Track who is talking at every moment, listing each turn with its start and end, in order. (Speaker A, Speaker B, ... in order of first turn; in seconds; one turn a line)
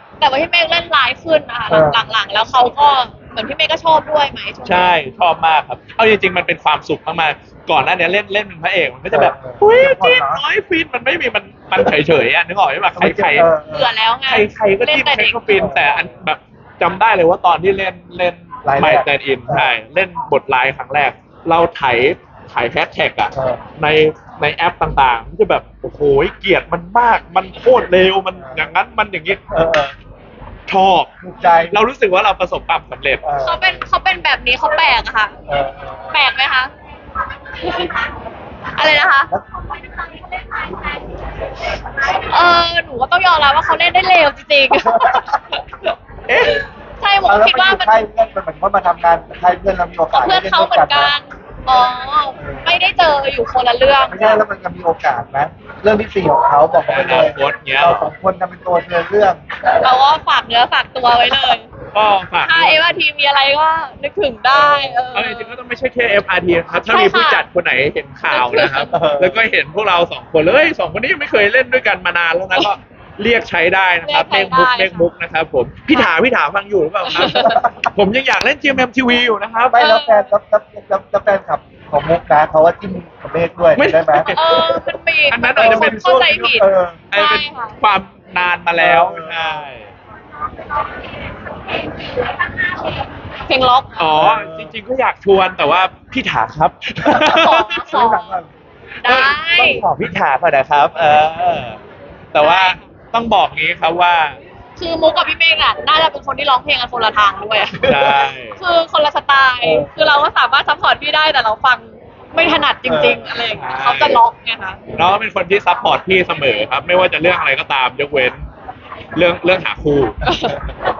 Speaker A: 0.2-5.0
Speaker B: 1.7-2.0
Speaker C: 4.6-13.5
Speaker B: 9.1-10.4
Speaker B: 13.0-13.9
Speaker A: 13.7-15.8
Speaker C: 14.3-29.4
Speaker B: 15.5-16.2
Speaker B: 18.6-19.7
Speaker B: 23.3-23.6
Speaker B: 28.4-28.7
Speaker B: 29.5-29.9
Speaker C: 30.7-33.2
Speaker B: 31.2-31.8
Speaker B: 33.2-33.8
Speaker A: 33.4-35.3
Speaker B: 35.5-36.2
Speaker A: 36.1-36.7
Speaker A: 37.6-38.0
Speaker A: 38.7-39.3
Speaker B: 38.8-39.5
Speaker A: 42.1-45.3
Speaker B: 44.7-45.4
Speaker C: 46.3-46.6
Speaker A: 46.4-47.9
Speaker B: 47.3-51.1
Speaker A: 50.1-54.4
Speaker B: 52.4-52.8
Speaker B: 54.0-59.4
Speaker C: 56.9-58.1
Speaker A: 59.8-61.7
Speaker C: 61.9-62.9
Speaker A: 62.4-65.6
Speaker B: 64.5-65.1
Speaker C: 65.1-79.9
Speaker A: 66.8-67.5
Speaker A: 68.3-68.9
Speaker B: 68.9-69.4
Speaker A: 74.0-75.1
Speaker A: 77.0-77.6
Speaker B: 77.3-77.9
Speaker B: 79.7-84.3
Speaker A: 79.8-80.3
Speaker C: 83.7-86.6
Speaker A: 84.3-87.8
Speaker B: 85.5-87.0
Speaker C: 87.1-89.9
Speaker B: 88.8-89.7
Speaker A: 93.5-94.2
Speaker C: 94.0-97.8
Speaker B: 94.2-94.7
Speaker A: 97.2-98.4
Speaker B: 97.9-98.5
Speaker A: 99.0-99.8
Speaker C: 99.0-101.8
Speaker C: 102.3-104.4
Speaker A: 102.4-102.8
Speaker A: 104.8-114.8
Speaker B: 107.8-108.1
Speaker C: 107.8-108.6
Speaker B: 109.6-110.0
Speaker B: 112.8-113.3
Speaker C: 113.5-114.2
Speaker C: 114.9-118.4
Speaker C: 119.1-120.2
Speaker A: 120.2-120.6
Speaker B: 120.3-120.7